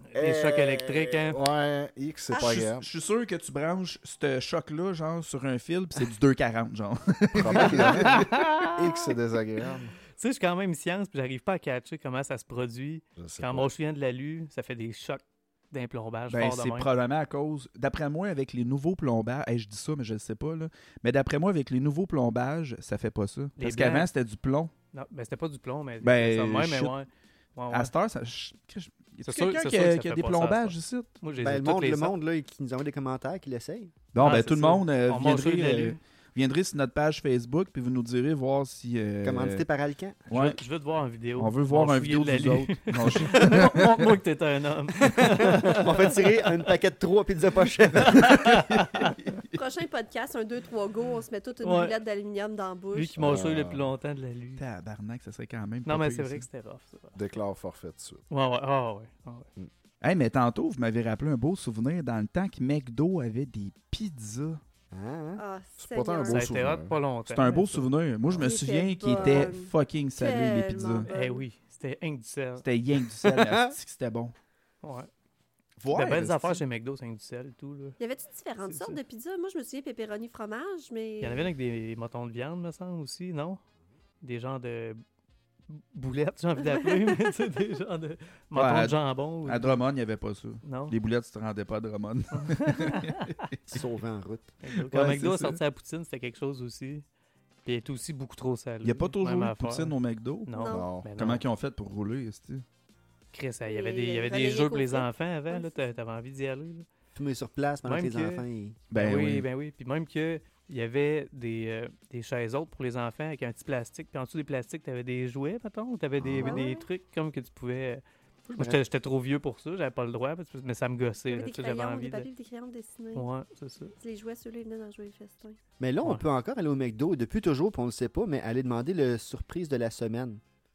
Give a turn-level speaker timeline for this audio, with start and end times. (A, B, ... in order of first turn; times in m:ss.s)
0:00.1-0:01.4 A
0:00.1-0:02.9 B
0:02.3-0:08.5 C
0:07.3-0:09.9 B
0:07.8-0:09.1 A
0:10.2-0:16.9 A
0:13.2-0:13.7 B
0:16.3-0:24.7 C
0:23.6-0:24.1 A
0:24.9-0:27.9 A
0:26.0-0:26.9 C
0:27.7-0:31.1 C
0:29.2-0:32.1 A
0:31.4-0:33.9 D
0:34.1-0:39.7 C
0:34.2-0:36.0 A
0:39.2-0:40.3 D
0:40.3-0:40.6 C
0:40.3-0:46.3 A
0:41.4-0:44.1 C
0:45.0-0:48.6 D
0:48.0-0:49.2 A
0:48.2-0:49.5 C
0:49.5-0:53.5 E
0:51.6-0:52.0 A
0:52.9-0:54.6 A
0:53.2-0:53.9 B
0:54.6-0:56.5 C
0:55.8-0:57.2 A
0:57.1-0:58.2 B
0:58.3-0:59.5 A
1:00.0-1:04.6 C
1:04.9-1:05.4 D
1:05.4-1:06.5 E
1:05.8-1:07.0 B
1:06.3-1:07.8 A
1:07.3-1:11.1 C
1:08.4-1:11.4 E
1:11.1-1:12.6 A
1:12.6-1:14.3 C
1:13.2-1:13.7 D
1:14.8-1:15.1 A
1:15.8-1:16.6 C
1:15.9-1:18.0 A
1:18.0-1:21.5 E
1:18.6-1:19.0 A
1:21.2-1:23.6 A
1:24.2-1:25.0 A
1:25.7-1:29.8 A
1:26.8-1:27.2 E
1:28.5-1:33.8 C
1:30.6-1:30.9 A
1:32.3-1:33.4 A
1:33.7-1:34.5 D
1:34.6-1:37.0 A
1:34.9-1:35.6 C
1:37.6-1:39.9 A
1:38.8-1:40.5 C
1:40.5-1:41.4 A
1:40.5-1:40.9 E
1:40.7-1:41.1 B
1:41.1-1:42.6 C
1:43.3-1:46.9 A
1:43.6-1:45.9 E
1:47.1-1:48.8 D
1:47.8-1:48.4 A
1:48.9-1:49.5 C
1:48.9-2:02.3 A
1:56.2-1:56.7 D
1:56.4-1:56.9 E
2:01.3-2:03.3 E
2:03.1-2:03.9 A
2:04.0-2:05.6 E
2:05.8-2:10.4 D